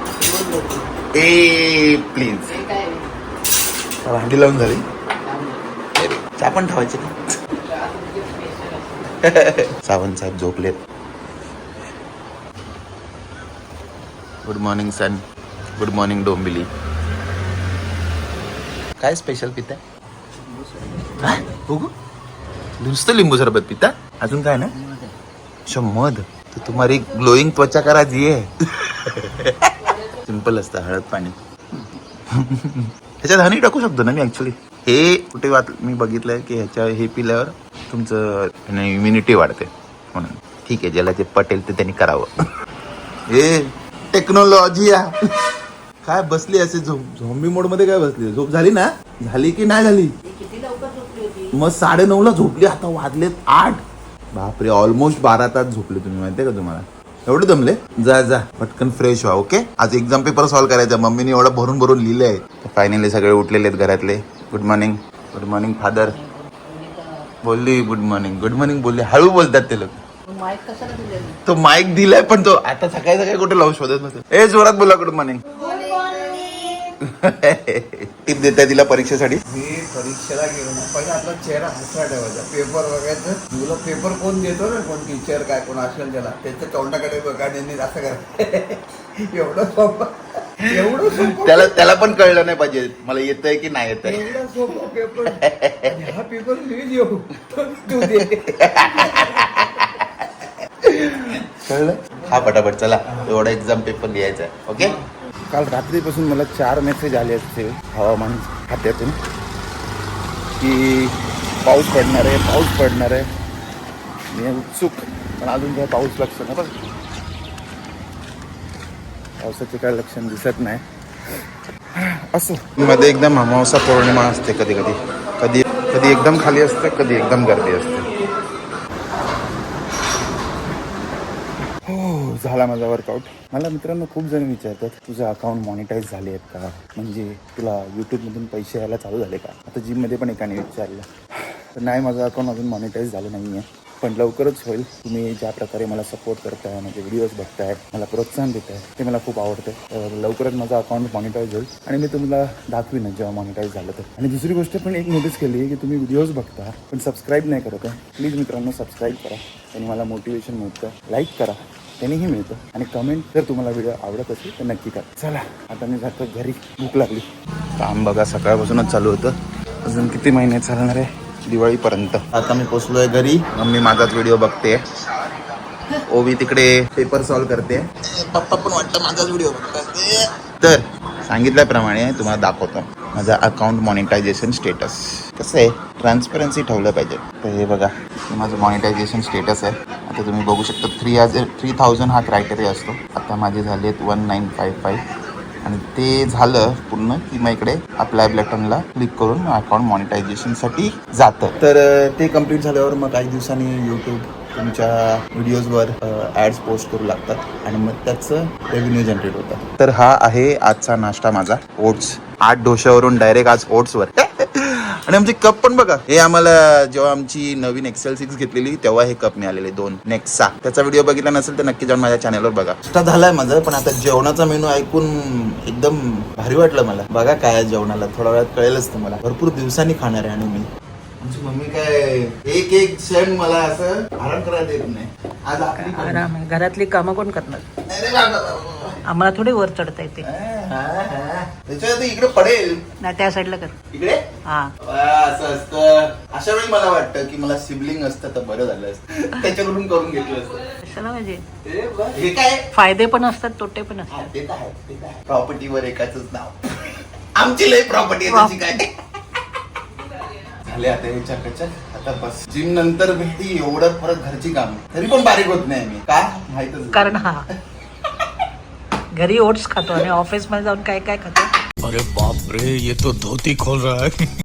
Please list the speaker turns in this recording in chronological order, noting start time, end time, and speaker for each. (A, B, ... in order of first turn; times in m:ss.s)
0:01.2-0:02.6 A
0:04.0-0:04.8 A
0:06.0-0:07.2 A
0:09.1-0:10.8 A
0:14.4-0:15.2 A
0:15.8-0:16.7 A
0:19.0-0:19.8 A
0:20.6-0:21.2 B
0:21.2-0:21.9 A
0:22.8-0:24.8 A
0:25.7-0:42.3 A
0:43.3-0:45.1 A
0:46.0-0:50.1 A
0:50.2-0:51.6 C
0:51.5-0:53.8 A
0:54.3-1:06.2 A
1:06.0-1:07.3 C
1:07.4-1:10.0 A
1:10.3-1:11.4 C
1:11.4-1:15.5 A
1:15.7-1:16.5 B
1:17.0-1:19.4 A
1:19.5-1:31.7 B
1:30.8-1:34.4 A
1:34.0-1:35.3 B
1:35.2-1:36.2 A
1:35.9-1:38.3 B
1:37.8-1:45.0 A
1:38.9-1:39.8 B
1:45.5-1:49.2 A
1:50.6-1:53.3 A
1:54.3-1:56.8 A
1:59.4-2:00.8 A
2:02.0-2:08.1 A
2:11.9-2:21.1 A
2:21.8-2:47.2 A
2:47.8-2:54.8 A
2:56.1-3:15.0 A
3:15.6-3:50.7 A
3:51.2-3:56.3 A
3:55.7-3:57.6 C
3:57.9-3:59.0 A
3:59.1-4:00.3 C
4:00.2-4:02.8 A
4:03.0-4:03.7 C
4:03.9-4:04.2 A
4:04.5-4:04.7 C
4:04.8-4:10.6 A
4:10.9-4:11.4 C
4:11.6-4:12.1 B
4:12.1-4:12.6 A
4:12.7-4:14.2 C
4:14.1-4:18.9 A
4:18.3-4:18.6 C
4:20.5-4:27.3 A
4:26.9-4:27.4 C
4:29.2-4:31.5 C
4:31.8-4:34.3 D